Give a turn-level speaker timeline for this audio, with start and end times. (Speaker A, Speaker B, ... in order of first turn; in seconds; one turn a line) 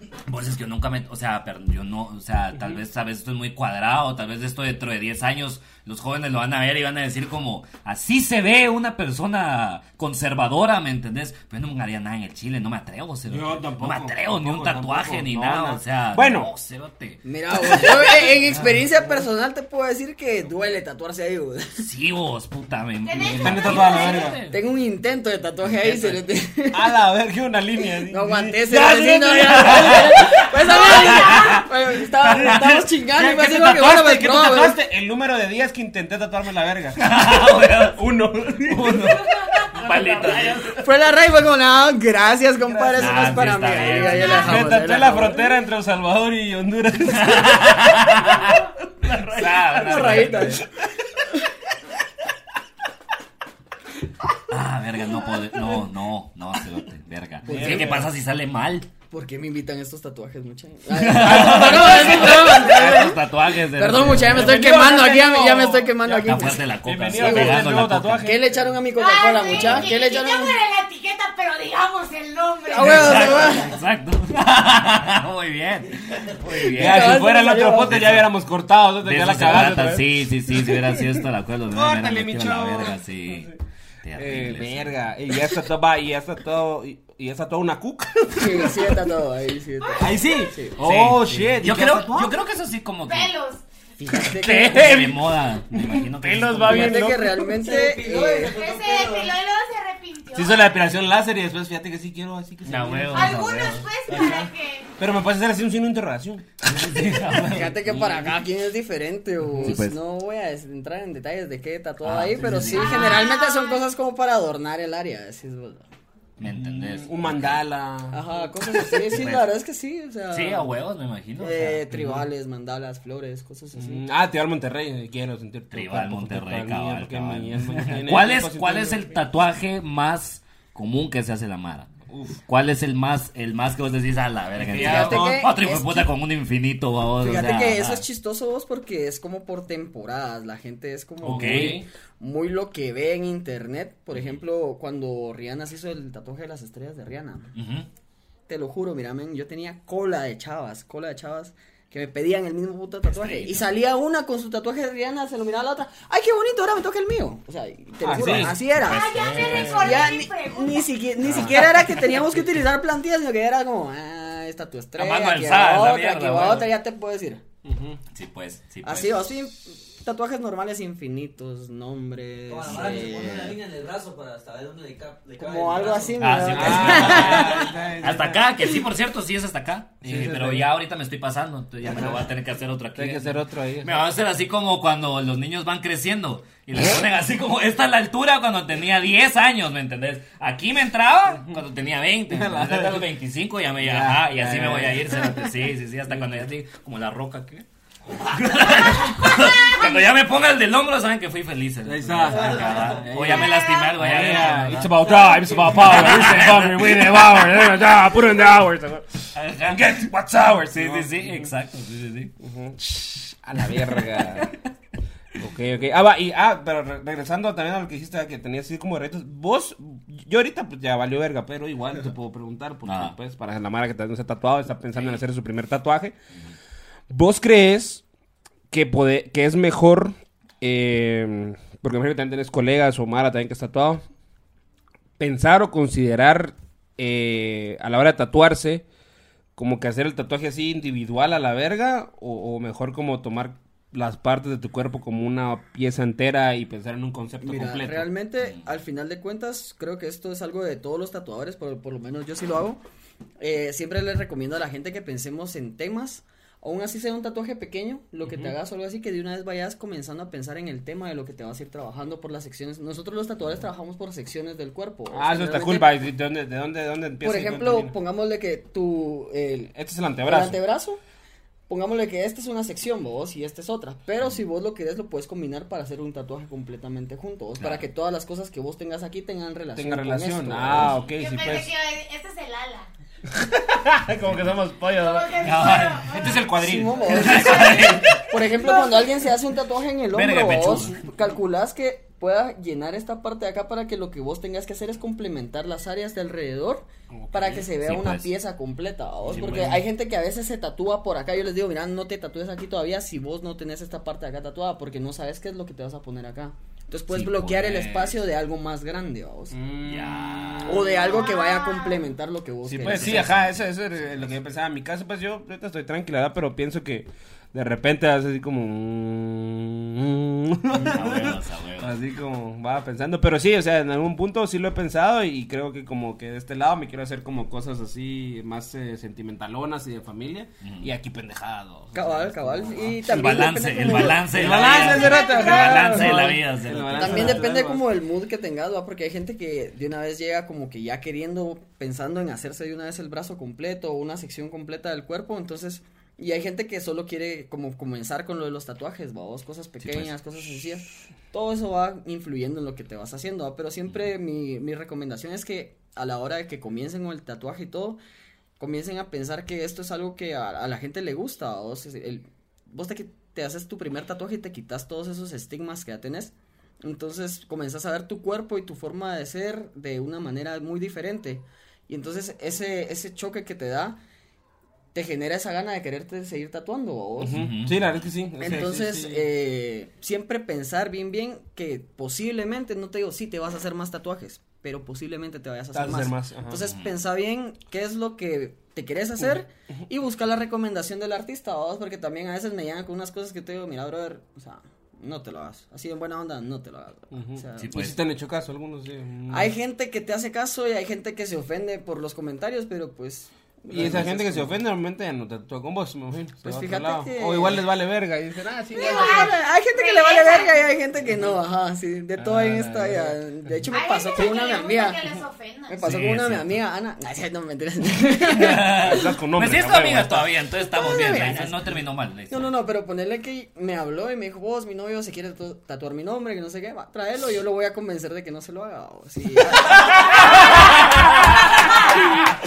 Speaker A: 0.3-18.8
Speaker B: 13.3-16.5
Speaker C: 17.2-21.9
Speaker A: 21.8-24.6
Speaker D: 23.0-24.4
Speaker B: 23.2-24.4
Speaker C: 24.4-26.9
Speaker B: 25.8-26.2
Speaker B: 26.7-30.8
Speaker C: 28.0-34.8
Speaker A: 29.7-31.5
Speaker D: 30.7-31.6
Speaker B: 32.2-40.8
Speaker A: 32.3-32.6
Speaker A: 37.0-38.0
Speaker A: 38.6-40.8
Speaker D: 39.4-39.7
Speaker C: 40.7-45.4
Speaker B: 42.6-43.6
Speaker A: 43.0-44.7
Speaker D: 44.0-44.6
Speaker B: 44.3-50.6
Speaker A: 47.1-50.6
Speaker C: 49.8-50.6
Speaker A: 54.5-58.9
Speaker C: 57.4-58.1
Speaker B: 57.4-58.1
Speaker C: 59.1-67.6
Speaker A: 60.9-64.6
Speaker B: 61.1-63.0
Speaker B: 64.0-68.8
Speaker A: 66.2-68.3
Speaker C: 68.2-70.5
Speaker D: 68.9-73.7
Speaker A: 69.5-69.9
Speaker C: 72.7-73.7
Speaker A: 72.7-77.2
Speaker B: 76.7-83.6
Speaker C: 76.7-78.1
Speaker A: 77.8-78.2
Speaker A: 79.0-83.5
Speaker A: 84.0-85.0
Speaker B: 84.1-89.0
Speaker C: 88.3-90.7
Speaker D: 89.8-90.2
Speaker B: 90.0-92.3
Speaker A: 90.8-93.3
Speaker D: 93.0-93.6
Speaker C: 94.0-95.0
Speaker B: 94.1-97.5
Speaker A: 94.4-97.1
Speaker C: 96.6-98.6
Speaker E: 97.5-99.3
Speaker D: 98.4-100.8
Speaker B: 100.3-103.4
Speaker A: 102.6-103.9
Speaker D: 103.1-104.9
Speaker B: 104.1-107.6
Speaker A: 106.6-108.3
Speaker C: 107.5-115.8
Speaker B: 109.5-109.8
Speaker A: 109.6-109.9
Speaker A: 112.0-113.1
Speaker B: 112.4-112.8
Speaker D: 112.7-113.9
Speaker A: 116.4-117.6
Speaker B: 116.4-118.2
Speaker C: 118.1-120.7
Speaker A: 118.7-119.4
Speaker A: 120.3-122.0
Speaker C: 121.4-124.1
Speaker B: 121.9-122.2
Speaker B: 123.7-129.2
Speaker A: 125.7-138.0
Speaker B: 132.1-132.4
Speaker B: 134.6-135.5
Speaker C: 134.7-136.1
Speaker C: 137.2-147.5
Speaker B: 141.2-141.8
Speaker A: 141.2-141.8
Speaker A: 147.5-147.9
Speaker C: 148.5-167.4
Speaker A: 153.1-153.7
Speaker B: 158.0-159.8
Speaker A: 158.8-160.0
Speaker D: 158.8-160.9
Speaker A: 161.2-161.8
Speaker B: 161.3-162.4
Speaker A: 165.0-166.7
Speaker B: 167.6-168.0
Speaker A: 168.1-169.3
Speaker C: 168.8-173.6
Speaker E: 172.5-177.2
Speaker A: 172.7-172.9
Speaker C: 175.4-177.7
Speaker A: 176.2-207.1
Speaker B: 176.5-178.6
Speaker B: 180.0-180.7
Speaker B: 181.8-182.3
Speaker B: 182.9-184.0
Speaker B: 192.3-193.1
Speaker B: 193.8-195.4
Speaker B: 196.1-196.5
Speaker B: 201.8-211.5
Speaker E: 202.2-203.3
Speaker D: 203.3-204.1
Speaker E: 205.3-205.8
Speaker A: 209.3-209.9
Speaker A: 210.7-212.3
Speaker B: 212.4-214.5
Speaker B: 215.3-226.1
Speaker A: 222.8-223.2
Speaker B: 227.1-228.0
Speaker B: 228.7-234.0
Speaker B: 235.2-238.8
Speaker B: 239.6-248.1
Speaker C: 247.4-252.8
Speaker A: 248.4-248.7
Speaker C: 253.4-265.9
Speaker B: 258.2-258.6
Speaker B: 265.1-267.9
Speaker C: 267.2-269.7
Speaker B: 269.7-270.6
Speaker C: 270.2-271.0
Speaker C: 271.7-280.9
Speaker B: 279.8-281.7
Speaker A: 280.7-281.1
Speaker D: 281.1-282.9
Speaker B: 283.3-285.6
Speaker D: 284.8-288.2
Speaker A: 285.4-286.4
Speaker B: 286.2-287.6
Speaker C: 286.6-309.6
Speaker A: 287.1-288.7
Speaker A: 290.1-291.0
Speaker B: 297.1-297.6
Speaker A: 297.5-298.3
Speaker A: 299.3-299.8
Speaker B: 299.4-299.8
Speaker A: 307.1-308.2
Speaker B: 309.5-310.9
Speaker A: 309.8-310.9
Speaker C: 310.6-313.3
Speaker D: 311.0-312.0
Speaker B: 312.6-337.8
Speaker A: 312.9-314.3
Speaker A: 320.8-321.9
Speaker A: 330.6-330.9
Speaker C: 331.9-336.2
Speaker A: 333.0-337.4
Speaker D: 334.6-336.0
Speaker C: 336.9-358.0
Speaker A: 349.8-350.1
Speaker C: 358.6-374.0
Speaker C: 374.9-377.4
Speaker B: 377.2-379.2
Speaker A: 377.2-377.9
Speaker C: 378.4-397.9
Speaker B: 385.7-386.7
Speaker A: 386.6-386.9
Speaker B: 397.1-399.5
Speaker A: 397.6-397.9
Speaker C: 399.3-404.5
Speaker B: 403.7-409.3
Speaker C: 406.4-407.6
Speaker D: 408.7-410.6
Speaker C: 408.7-415.1
Speaker B: 411.1-411.3
Speaker B: 412.2-413.6
Speaker D: 413.7-415.8
Speaker C: 415.7-419.1
Speaker A: 415.8-416.6
Speaker A: 418.3-422.5
Speaker B: 418.5-420.2
Speaker C: 420.7-430.6
Speaker D: 430.1-432.0
Speaker A: 430.1-431.4